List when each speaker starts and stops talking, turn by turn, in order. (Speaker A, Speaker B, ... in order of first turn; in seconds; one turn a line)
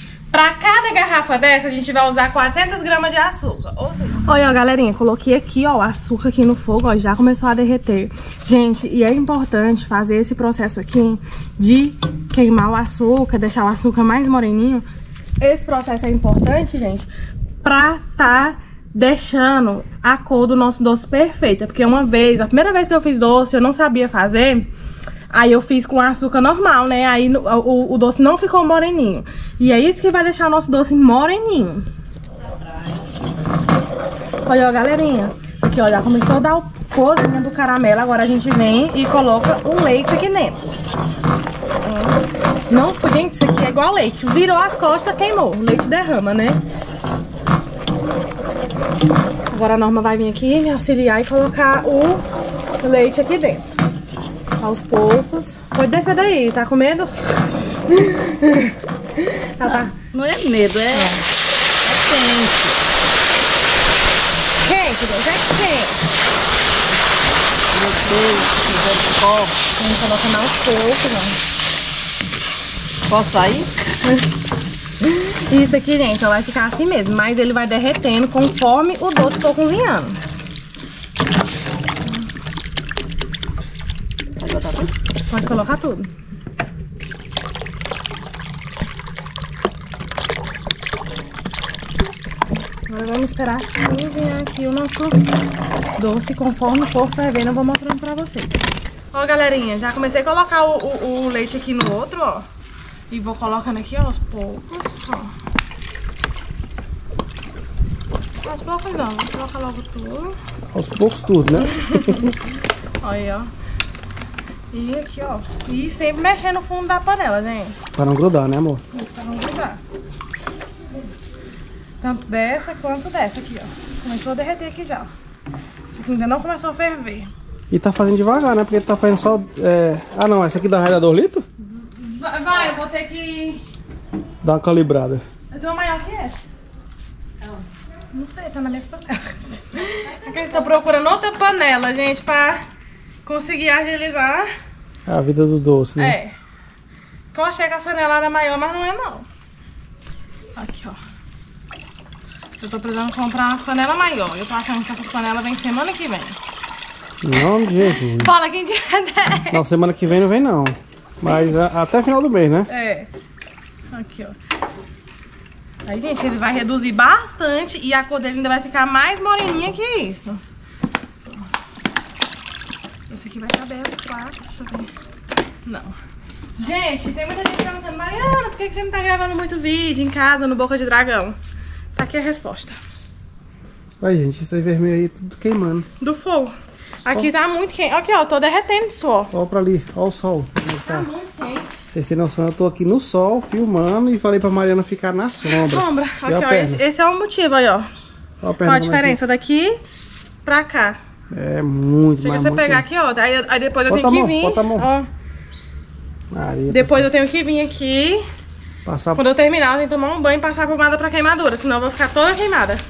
Speaker A: 0.3-14.8
Speaker A: 15.4-17.1
Speaker A: 17.6-24.7
Speaker A: 25.3-31.9
Speaker A: 34.5-40.6
Speaker A: 41.8-46.6
Speaker A: 49.5-52.2
Speaker A: 52.8-53.7
Speaker A: 54.6-60.0
Speaker B: 59.6-61.2
Speaker B: 61.8-62.8
Speaker A: 64.6-66.0
Speaker B: 67.7-69.5
Speaker A: 69.8-71.4
Speaker B: 73.1-73.7
Speaker A: 75.0-80.2
Speaker B: 84.4-84.9
Speaker A: 85.3-86.1
Speaker A: 92.9-95.2
Speaker A: 96.0-98.6
Speaker A: 99.1-102.5
Speaker A: 103.1-105.3
Speaker A: 108.4-110.4
Speaker C: 110.7-112.3
Speaker A: 111.7-112.3
Speaker A: 113.0-113.5
Speaker A: 114.7-117.8
Speaker C: 118.0-118.8
Speaker A: 118.9-119.8
Speaker A: 122.0-125.1
Speaker A: 125.9-127.3
Speaker C: 127.7-131.4
Speaker A: 131.8-133.6
Speaker C: 134.4-135.2
Speaker A: 135.5-136.4
Speaker A: 138.1-142.6
Speaker A: 143.2-144.5
Speaker C: 145.1-146.2
Speaker A: 146.0-146.3
Speaker A: 147.3-149.3
Speaker A: 150.6-151.0
Speaker A: 152.6-156.4
Speaker C: 157.2-158.3
Speaker A: 157.8-159.6
Speaker C: 159.5-162.7
Speaker A: 162.7-163.1
Speaker A: 163.9-164.4
Speaker A: 165.9-170.4
Speaker A: 173.1-174.9
Speaker A: 175.7-175.9
Speaker A: 176.6-181.4
Speaker A: 181.9-182.8
Speaker C: 184.0-185.9
Speaker A: 186.0-186.5
Speaker A: 187.1-189.3
Speaker C: 189.3-191.1
Speaker A: 190.9-191.8
Speaker C: 191.9-196.8
Speaker A: 195.5-197.9
Speaker C: 198.4-199.2
Speaker A: 198.6-199.8
Speaker A: 200.4-201.0
Speaker C: 201.3-202.8
Speaker A: 202.2-205.1
Speaker C: 203.9-204.9
Speaker C: 206.3-207.1
Speaker A: 206.7-208.2
Speaker C: 208.8-209.2
Speaker A: 209.2-212.8